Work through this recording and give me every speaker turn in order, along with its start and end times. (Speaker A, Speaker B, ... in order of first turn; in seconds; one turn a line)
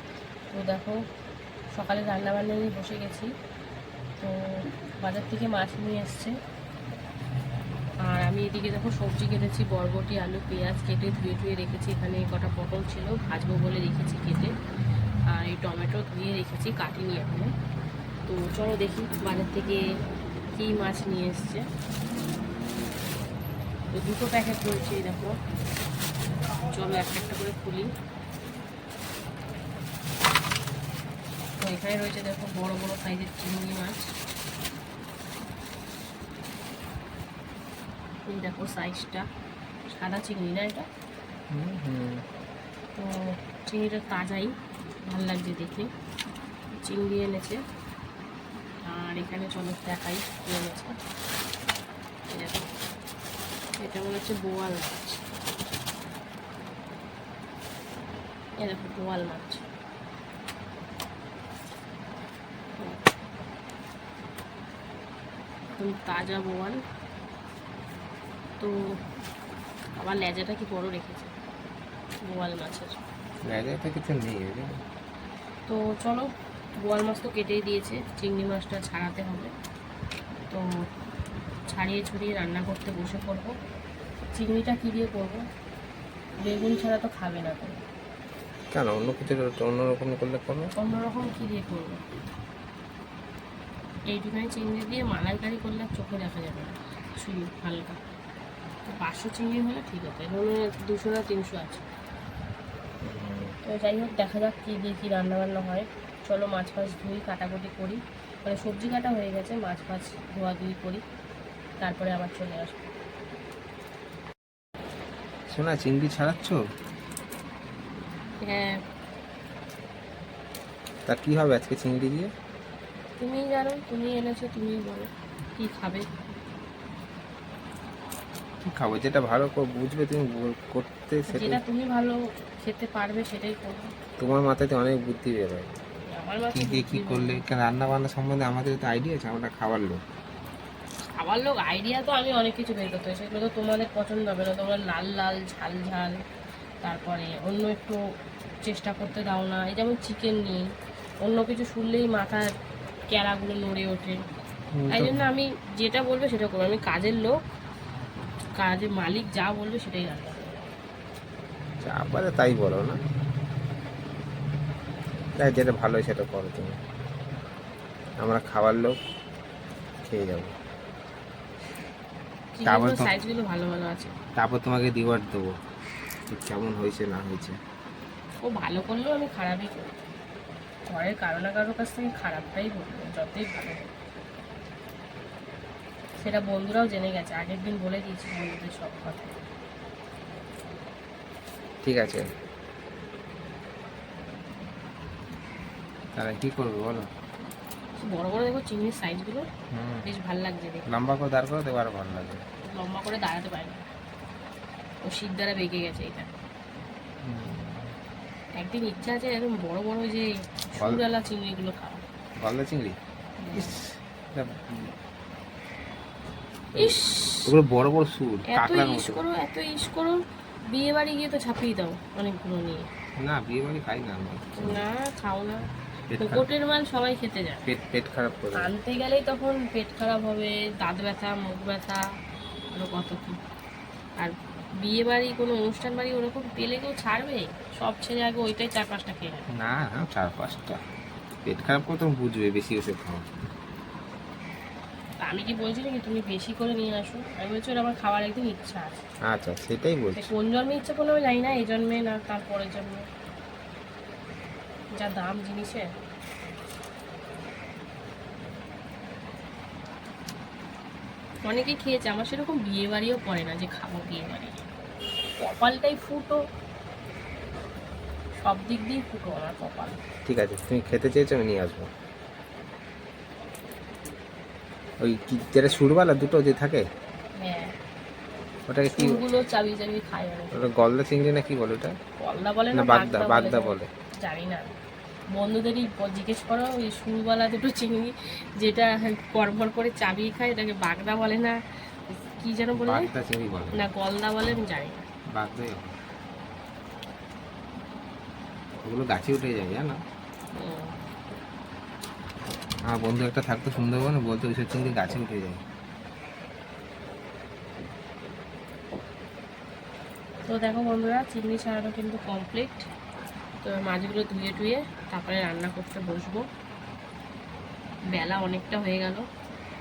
Speaker A: 0.5-1.0
Speaker A: 1.7-3.3
Speaker A: 4.2-6.3
Speaker A: 8.0-14.5
Speaker A: 15.3-17.5
Speaker A: 18.3-19.8
Speaker A: 20.5-21.6
Speaker A: 23.9-25.4
Speaker A: 26.7-27.9
Speaker A: 31.6-34.1
Speaker A: 38.3-39.3
Speaker A: 39.9-40.9
Speaker B: 41.5-42.2
Speaker A: 42.9-44.5
Speaker A: 45.0-45.9
Speaker A: 46.8-47.6
Speaker A: 48.8-51.0
Speaker A: 52.3-52.7
Speaker A: 53.8-55.2
Speaker A: 58.6-59.6
Speaker A: 62.8-63.1
Speaker A: 65.8-66.8
Speaker A: 68.6-68.9
Speaker A: 70.0-71.3
Speaker A: 72.2-73.0
Speaker B: 73.4-74.7
Speaker A: 75.7-79.5
Speaker A: 81.7-83.5
Speaker A: 84.3-85.4
Speaker A: 86.4-87.8
Speaker B: 88.7-90.7
Speaker A: 90.8-92.0
Speaker A: 94.1-98.0
Speaker A: 98.8-101.8
Speaker B: 103.0-103.5
Speaker A: 103.7-111.0
Speaker A: 111.8-112.9
Speaker B: 115.5-116.6
Speaker A: 118.4-118.8
Speaker B: 121.1-122.3
Speaker A: 123.2-126.1
Speaker B: 128.7-131.6
Speaker A: 131.3-133.9
Speaker B: 134.2-135.8
Speaker A: 136.1-137.4
Speaker B: 136.5-140.0
Speaker A: 141.1-146.2
Speaker A: 146.8-148.0
Speaker A: 148.6-150.6
Speaker A: 151.2-152.5
Speaker A: 153.1-154.2
Speaker B: 154.7-155.2
Speaker A: 154.9-157.3
Speaker A: 158.6-160.7
Speaker B: 161.8-163.0
Speaker B: 165.4-166.8
Speaker B: 168.2-168.9
Speaker B: 170.0-170.5
Speaker A: 172.5-174.1
Speaker B: 172.7-173.1
Speaker B: 174.3-175.5
Speaker B: 176.3-177.6
Speaker A: 178.4-179.9
Speaker A: 180.9-183.9
Speaker A: 186.2-189.3
Speaker B: 191.8-192.2
Speaker B: 196.2-197.1
Speaker A: 198.0-199.5
Speaker B: 199.7-200.1
Speaker A: 200.1-200.8
Speaker B: 200.9-202.4
Speaker A: 202.7-203.8
Speaker A: 205.0-206.3
Speaker B: 207.2-207.9
Speaker A: 208.6-212.0
Speaker B: 212.4-213.0
Speaker A: 213.4-213.8
Speaker B: 213.5-214.9
Speaker A: 216.8-217.5
Speaker B: 216.8-219.2
Speaker A: 218.5-222.9
Speaker B: 223.2-224.8
Speaker A: 224.6-225.6
Speaker B: 226.1-226.4
Speaker A: 226.2-227.6
Speaker B: 227.6-228.7
Speaker A: 228.5-232.0
Speaker A: 232.7-233.4
Speaker A: 234.2-239.4
Speaker B: 239.5-240.8
Speaker B: 241.4-243.4
Speaker A: 245.2-249.0
Speaker B: 249.2-250.3
Speaker A: 250.2-253.0
Speaker A: 255.0-255.9
Speaker A: 261.4-264.6
Speaker A: 265.4-266.4
Speaker A: 268.4-270.0
Speaker B: 270.2-271.9
Speaker B: 275.0-276.8
Speaker A: 277.4-277.7
Speaker B: 278.7-279.2
Speaker A: 278.9-280.7
Speaker B: 280.5-281.9
Speaker A: 282.2-284.7
Speaker B: 282.7-283.9
Speaker A: 285.3-291.6
Speaker A: 292.2-293.1
Speaker B: 292.7-293.8
Speaker A: 293.7-295.0
Speaker B: 295.3-295.9
Speaker B: 298.8-300.0
Speaker A: 300.6-300.9
Speaker B: 302.9-305.6
Speaker A: 310.4-312.9
Speaker A: 313.6-316.4
Speaker A: 318.1-319.2